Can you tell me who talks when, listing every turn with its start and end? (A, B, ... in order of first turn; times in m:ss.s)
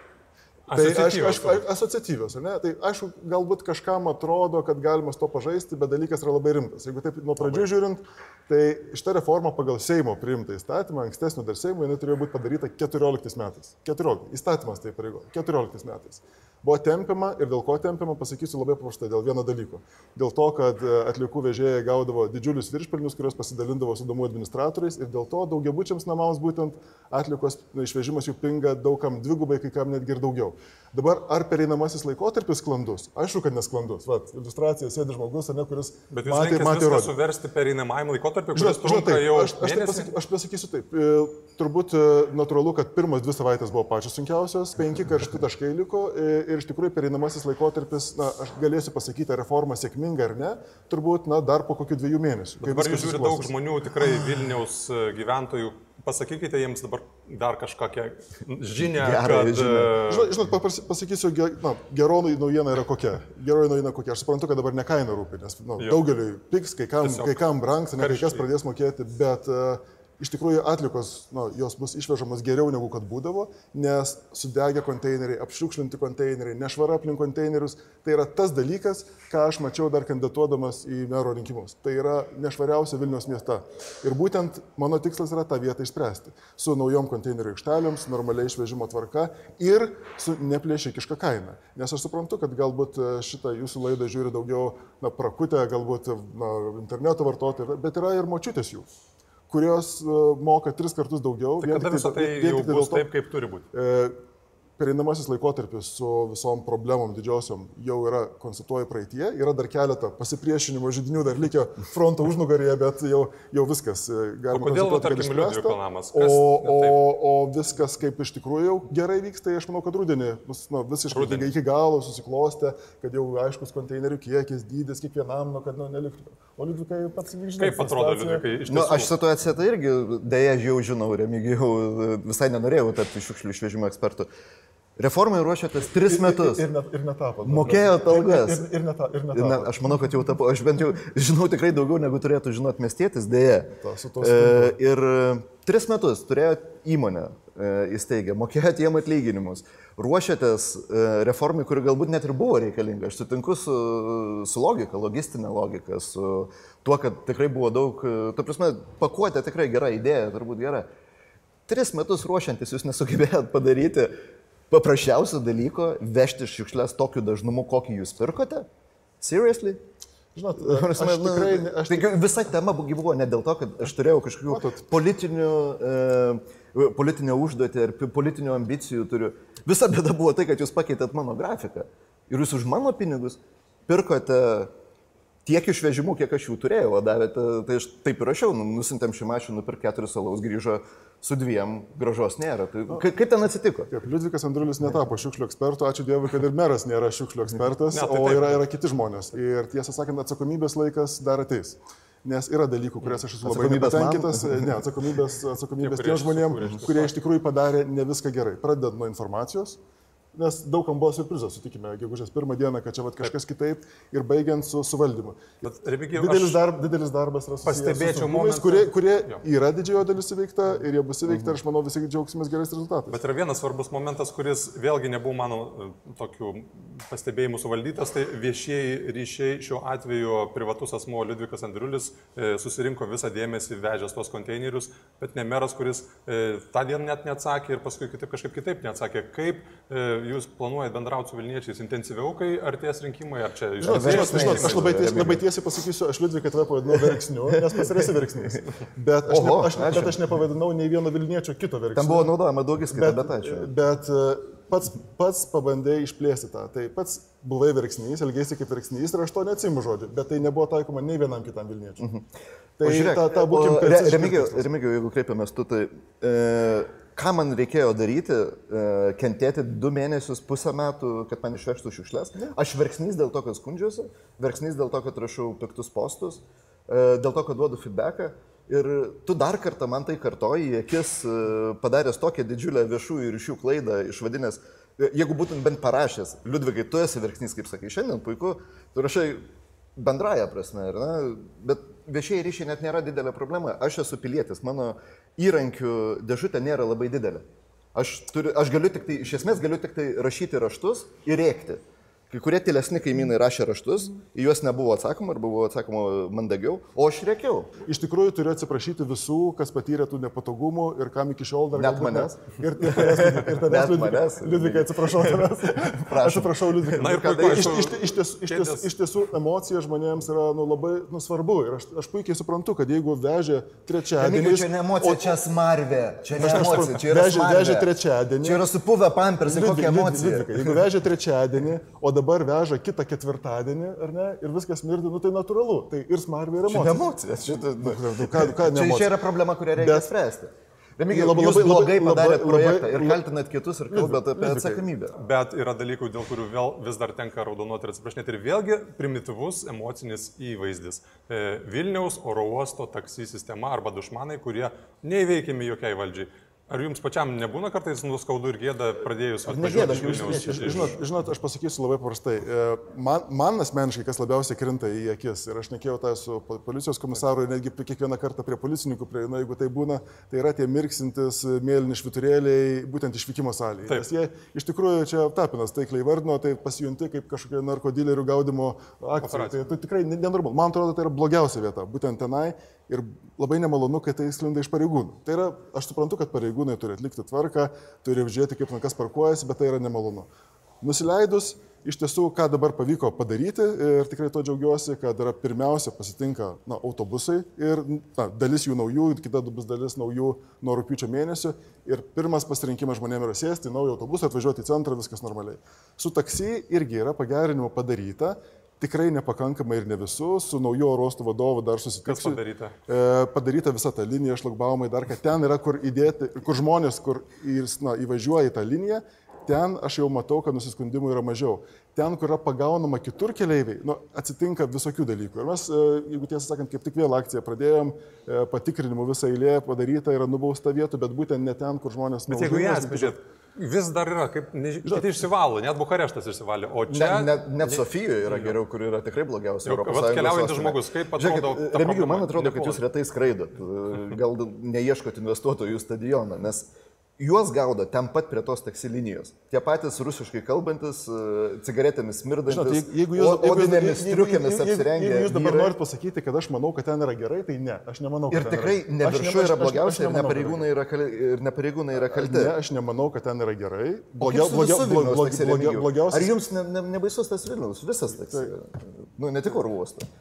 0:00.7-0:01.6 A
0:00.7-0:37.1 B
0:36.1-0:40.1 A
0:38.5-0:53.6 B
0:52.6-1:00.3 A
0:58.8-1:00.0 C
1:00.0-1:38.9 B
1:07.0-1:08.5 A
1:39.5-1:43.1 B
1:41.6-1:43.7 A
1:43.7-1:44.2 B
1:44.8-2:08.5 B
1:54.5-1:57.0 A
2:01.1-2:01.5 A
2:07.6-2:09.1 A
2:08.7-2:14.3 C
2:15.0-2:16.6 C
2:16.0-2:19.9 B
2:17.4-2:18.7 C
2:19.3-2:40.9 C
2:23.8-2:24.8 B
2:41.7-2:44.1 C
2:44.7-2:48.7 C
2:49.2-2:49.8 C
2:50.4-2:52.1 B
2:50.6-3:04.7 C
2:54.5-2:54.9 B
3:05.4-3:13.9 C
3:13.9-3:29.8 B
3:17.9-3:18.6 A
3:23.4-3:24.8 C
3:25.8-3:27.1 A
3:30.3-3:43.2 B
3:35.6-3:36.6 A
3:37.6-3:39.4 A
3:41.3-3:41.6 C
3:43.1-4:05.2 A
4:03.8-4:12.3 B
4:03.8-4:05.4 C
4:07.0-4:08.0 C
4:09.3-4:10.2 C
4:11.9-4:13.7 C
4:12.9-4:22.1 B
4:22.8-4:24.7 B
4:22.8-4:49.4 C
4:50.0-5:07.7 C
5:07.8-5:25.4 B
5:11.7-5:17.9 C
5:16.9-5:18.9 A
5:24.2-5:30.9 C
5:26.3-5:28.7 B
5:29.4-5:37.0 B
5:36.6-5:45.2 C
5:37.8-5:40.1 B
5:41.1-5:43.2 B
5:43.9-5:44.9 B
5:45.1-6:01.0 A
5:59.4-6:01.0 C
5:59.7-6:30.3 B
6:19.2-6:19.6 A
6:30.8-7:13.2 B
6:52.0-6:52.8 A
7:12.3-7:18.6 A
7:14.8-7:15.1 B
7:16.9-7:35.8 C
7:19.6-7:22.8 A
7:32.5-7:40.7 B
7:38.3-7:42.5 C
7:42.1-7:46.4 B
7:44.2-7:50.1 C
7:48.1-7:48.5 B